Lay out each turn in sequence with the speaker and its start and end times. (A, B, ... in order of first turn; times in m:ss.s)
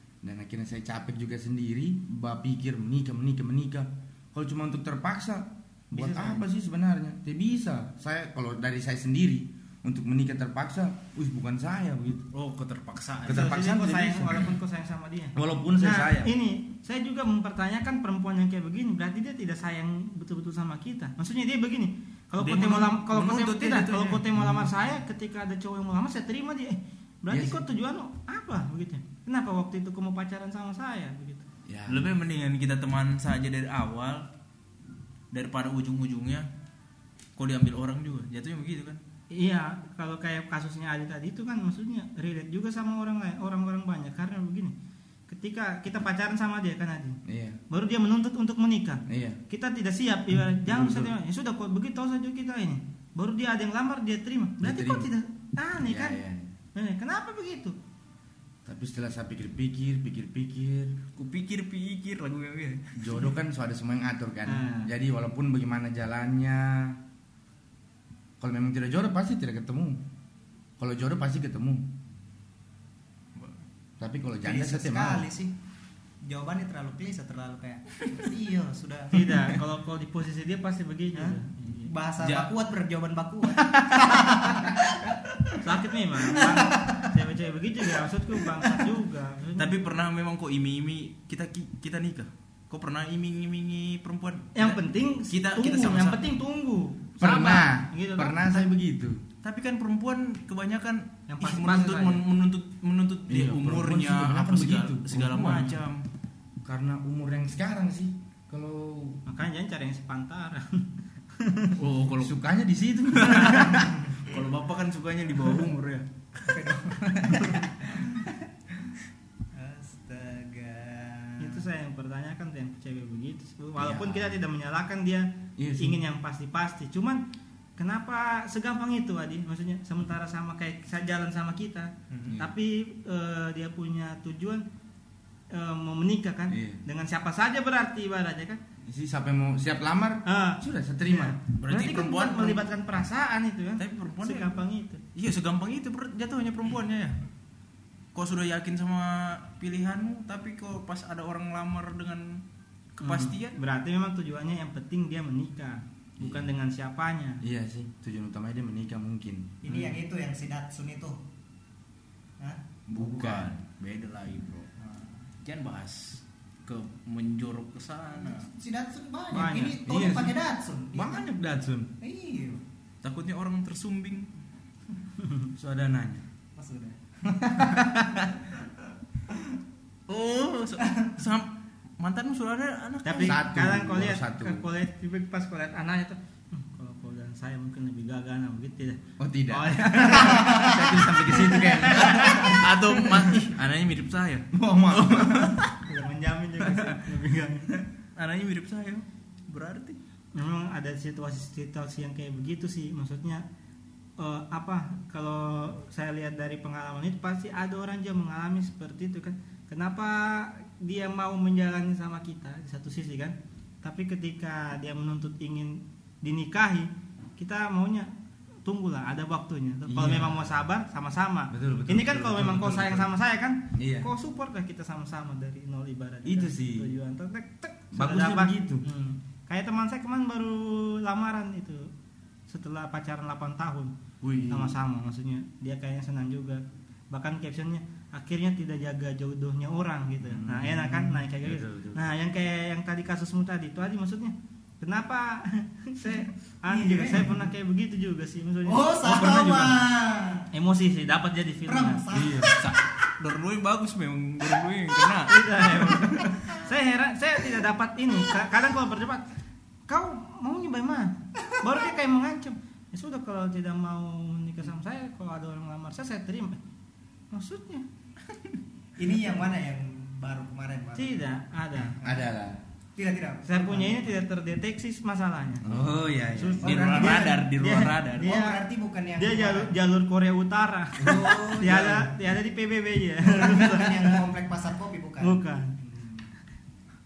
0:00.2-0:12.3 A
0:05.9-0:06.4 B
0:12.3-0:13.6 C
0:13.2-0:14.5 A
0:13.3-0:31.5 B
0:15.3-0:16.3 A
0:22.4-0:24.2 C
0:24.3-0:24.7 A
0:27.3-0:27.6 A
0:31.7-0:32.1 A
0:31.9-0:34.2 C
0:35.3-0:36.5 C
0:37.4-0:39.0 C
0:39.3-0:44.7 B
0:45.3-0:56.2 B
0:47.2-0:47.6 A
0:49.1-0:49.4 A
0:50.6-0:51.1 A
0:54.6-0:55.1 A
0:55.8-0:56.5 A
0:56.7-0:57.7 B
0:58.6-1:01.0 A
1:01.1-1:03.1 C
1:03.0-1:07.0 A
1:04.4-1:04.9 B
1:08.4-1:10.0 A
1:10.8-1:11.9 A
1:13.3-1:13.6 C
1:14.0-1:15.2 A
1:14.4-1:15.5 D
1:16.2-1:19.3 D
1:19.1-1:21.9 B
1:21.1-1:24.8 D
1:22.2-1:22.5 C
1:25.6-1:29.8 B
1:26.3-1:27.1 D
1:28.6-1:28.8 D
1:29.6-1:36.2 C
1:34.5-1:38.6 B
1:37.2-1:39.2 A
1:39.4-1:46.0 C
1:41.3-1:42.2 B
1:43.3-1:45.8 A
1:46.6-1:49.2 A
1:49.2-1:51.8 B
1:51.8-1:52.4 C
1:52.2-1:54.1 A
1:53.2-1:56.6 C
1:54.0-1:54.3 D
1:56.5-1:58.4 D
1:59.5-2:01.6 D
2:01.4-2:07.2 B
2:03.8-2:04.4 A
2:05.6-2:06.0 A
2:07.8-2:14.6 B
2:12.1-2:12.4 D
2:15.5-2:18.6 B
2:16.5-2:16.8 A
2:18.9-2:21.4 A
2:20.2-2:25.0 B
2:21.5-2:22.6 C
2:23.8-2:24.6 C
2:25.1-2:27.2 C
2:28.1-2:32.4 C
2:33.0-2:33.6 C
2:33.0-2:37.4 B
2:36.2-2:36.5 A
2:37.4-2:39.6 A
2:39.6-2:41.2 D
2:39.7-2:40.0 B
2:42.4-2:43.5 D
2:42.9-2:44.7 C
2:44.8-2:45.3 D
2:45.4-2:48.5 C
2:48.1-2:51.2 D
2:49.3-2:49.8 B
2:49.8-2:50.4 A
2:50.9-2:51.9 A
2:52.0-2:52.6 D
2:53.0-2:54.3 C
2:55.5-2:56.2 A
2:56.6-2:57.7 D
2:57.3-2:58.3 A
3:00.1-3:03.4 C
3:00.8-3:01.0 D
3:03.0-3:12.5 B
3:03.2-3:04.6 A
3:09.2-3:13.5 A
3:10.4-3:10.8 D
3:11.9-3:15.7 C
3:14.5-3:15.7 A
3:15.8-3:17.7 B
3:16.6-3:17.0 A
3:18.1-3:20.0 C
3:20.3-3:23.4 B
3:24.2-3:38.1 B
3:38.6-3:51.9 B
3:39.9-3:40.5 A
3:41.5-3:43.1 A
3:43.7-3:44.1 A
3:46.2-3:47.0 A
3:47.9-3:48.8 A
3:52.5-3:53.9 B
3:54.2-3:54.6 C
3:54.5-4:09.7 B
4:00.2-4:02.0 A
4:06.7-4:07.4 D
4:08.6-4:10.5 D
4:10.5-4:12.0 B
4:11.6-4:12.8 D
4:12.1-4:12.5 A
4:12.6-4:15.9 C
4:14.4-4:15.1 D
4:15.3-4:19.2 B
4:15.7-4:16.6 D
4:19.9-4:26.6 B
4:27.3-4:27.8 B
4:29.0-4:31.2 D
4:31.0-4:32.0 B
4:32.0-4:32.3 D
4:32.0-4:32.6 A
4:33.0-4:34.1 D
4:33.4-4:35.6 B
4:35.6-4:36.8 A
4:36.3-4:38.6 B
4:36.6-4:37.5 D
4:36.6-4:38.3 C
4:38.2-4:39.7 D
4:39.2-4:44.2 B
4:41.0-4:42.1 D
4:41.0-4:41.4 A
4:43.2-4:46.2 D
4:45.2-4:45.8 B